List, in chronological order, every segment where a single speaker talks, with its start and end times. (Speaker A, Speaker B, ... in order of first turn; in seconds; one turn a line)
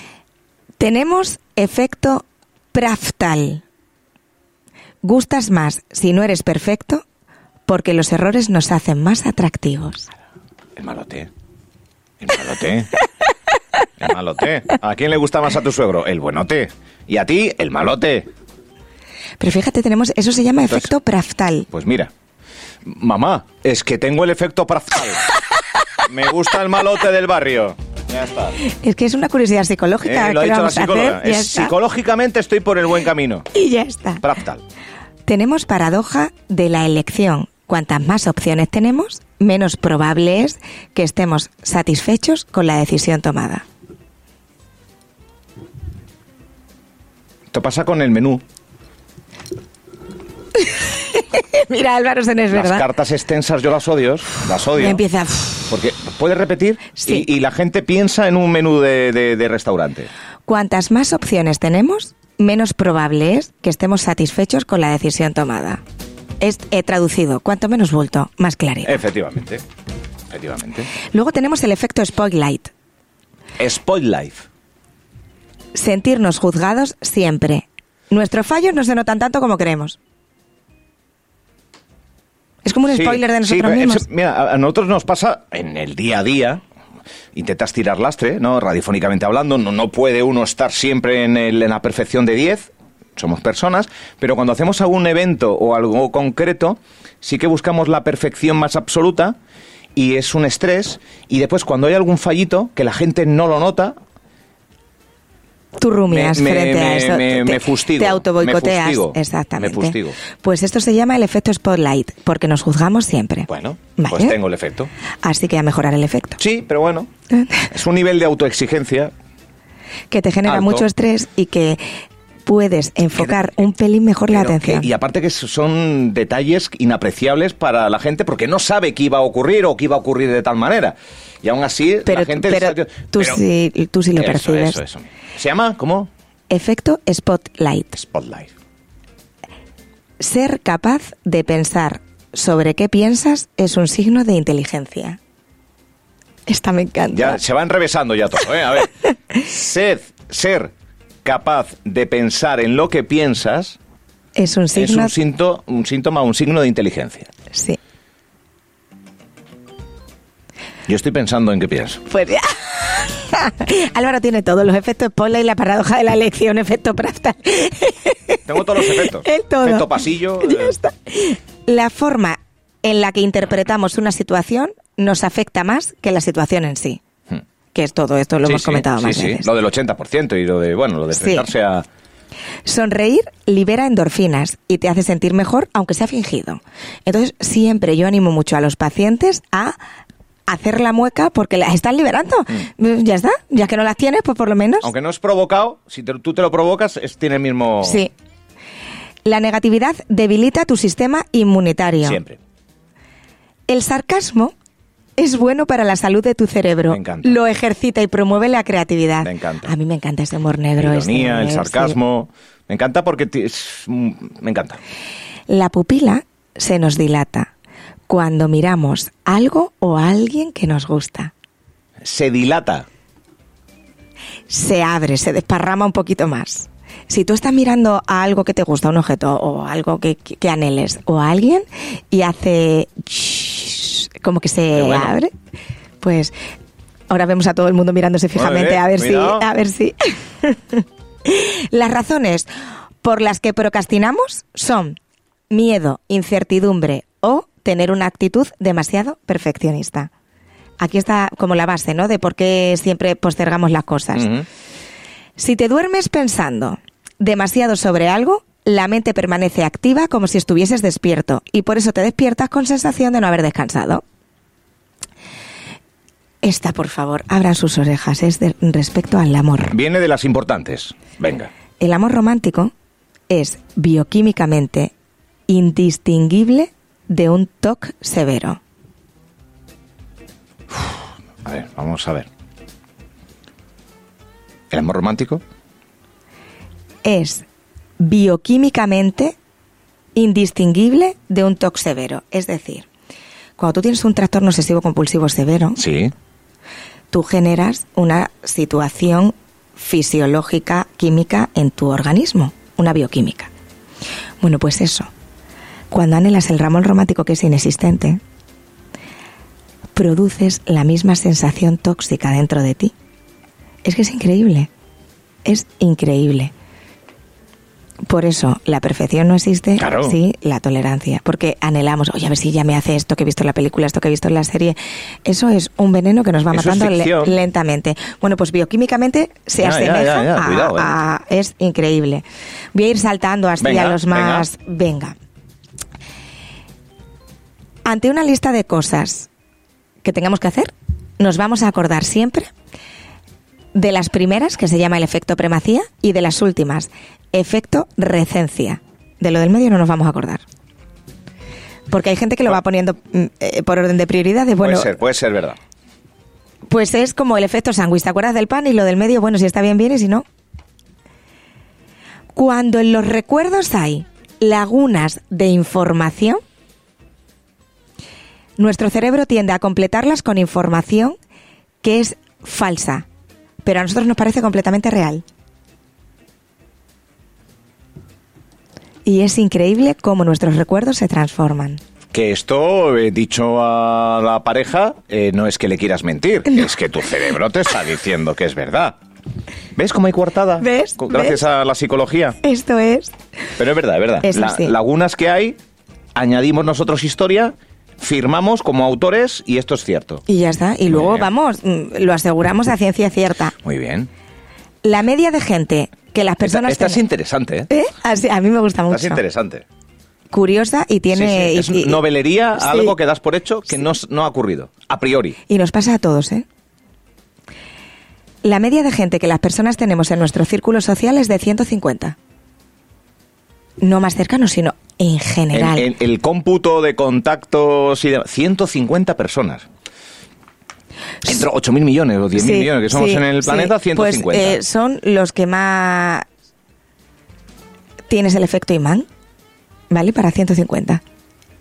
Speaker A: 0.8-3.6
Speaker A: 5.0-7.0
Speaker A: 7.7-10.1
Speaker B: 10.8-11.3
Speaker B: 12.2-12.9
Speaker B: 14.0-18.3
Speaker A: 19.4-21.7
Speaker B: 21.7-22.1
Speaker B: 22.8-25.2
Speaker B: 26.0-28.6
Speaker A: 28.6-31.7
Speaker B: 30.0-33.5
Speaker A: 33.5-34.2
Speaker B: 34.2-34.6
Speaker A: 35.2-43.6
Speaker B: 47.5-48.4
Speaker A: 50.7-52.9
Speaker B: 52.5-55.0
Speaker A: 54.8-55.7
Speaker B: 55.7-60.1
Speaker A: 57.0-57.2
Speaker A: 60.5-65.8
Speaker A: 66.4-69.0
Speaker B: 68.8-69.6
Speaker B: 70.3-70.9
Speaker A: 71.1-72.7
Speaker B: 73.6-74.5
Speaker A: 75.7-80.0
Speaker A: 82.6-84.0
Speaker B: 82.9-86.6
Speaker B: 87.3-99.4
Speaker B: 100.0-104.0
Speaker A: 105.8-114.3
Speaker B: 106.1-110.2
Speaker B: 113.5-114.9
Speaker A: 115.2-116.4
Speaker B: 116.4-117.1
Speaker A: 117.3-117.7
Speaker B: 117.7-119.1
Speaker A: 120.1-121.8
Speaker B: 120.4-120.9
Speaker A: 122.5-124.9
Speaker B: 123.2-123.7
Speaker B: 124.3-133.4
Speaker A: 132.1-134.8
Speaker B: 134.2-136.1
Speaker A: 136.5-138.1
Speaker B: 138.1-138.5
Speaker A: 140.2-145.2
Speaker A: 146.5-147.4
Speaker B: 147.1-150.7
Speaker B: 151.2-153.8
Speaker A: 154.3-155.1
Speaker B: 154.7-157.3
Speaker A: 157.5-157.8
Speaker B: 160.9-162.0
Speaker A: 162.1-177.0
Speaker B: 168.5-170.7
Speaker A: 177.7-179.5
Speaker B: 178.4-181.8
Speaker A: 181.1-181.5
Speaker A: 182.6-189.8
Speaker A: 190.5-194.9
Speaker B: 194.8-198.0
Speaker A: 197.8-198.1
Speaker A: 199.2-202.2
Speaker B: 202.0-202.4
Speaker A: 203.7-204.5
Speaker A: 205.2-212.0
Speaker B: 206.9-207.4
Speaker B: 209.2-209.7
Speaker B: 210.8-214.8
Speaker A: 215.5-217.5
Speaker A: 218.1-221.3
Speaker B: 222.0-222.8
Speaker A: 224.5-235.3
Speaker B: 234.7-235.1
Speaker A: 236.0-236.3
Speaker A: 237.1-242.5
Speaker B: 238.3-239.5
Speaker A: 243.0-245.0
Speaker A: 245.5-250.1
Speaker A: 250.8-254.3
Speaker B: 254.1-254.4
Speaker A: 255.4-264.0
Speaker A: 266.4-269.7
Speaker B: 269.7-271.5
Speaker A: 271.8-272.7
Speaker A: 273.3-274.9
Speaker A: 275.5-278.6
Speaker B: 280.7-282.3
Speaker B: 284.7-285.4
Speaker A: 287.0-287.4
Speaker A: 288.0-289.4
Speaker A: 290.1-292.9
Speaker A: 293.6-295.8
Speaker B: 295.8-296.1
Speaker A: 297.1-303.5
Speaker A: 304.4-305.1
Speaker A: 305.9-308.2
Speaker A: 309.9-312.9
Speaker A: 313.8-314.7
Speaker A: 315.4-316.5
Speaker A: 318.1-335.1
Speaker B: 319.8-320.2
Speaker B: 326.5-327.3
Speaker B: 329.6-331.0
Speaker B: 333.6-334.5
Speaker A: 337.8-339.3
Speaker A: 340.0-342.5
Speaker A: 343.7-350.4
Speaker A: 351.9-354.9
Speaker B: 354.6-355.6
Speaker A: 356.7-360.2
Speaker A: 362.3-366.4
Speaker A: 368.6-371.2
Speaker A: 371.8-373.1
Speaker A: 373.6-375.2
Speaker A: 379.0-381.8
Speaker B: 382.1-388.9
Speaker B: 389.8-392.4
Speaker A: 390.6-391.4
Speaker A: 392.4-393.1
Speaker B: 393.6-395.6
Speaker A: 394.2-394.7
Speaker B: 396.1-400.2
Speaker A: 400.3-403.5
Speaker B: 400.9-401.3
Speaker B: 403.6-404.1
Speaker A: 404.8-407.0
Speaker B: 406.4-407.7
Speaker A: 407.7-409.2
Speaker B: 408.9-409.6
Speaker A: 410.3-412.0
Speaker B: 411.1-415.4
Speaker A: 412.6-412.9
Speaker A: 415.5-416.4
Speaker A: 418.4-422.1
Speaker A: 423.8-425.9
Speaker B: 425.5-429.6
Speaker B: 431.2-434.6
Speaker A: 432.4-436.2
Speaker A: 438.1-439.1
Speaker A: 439.9-441.0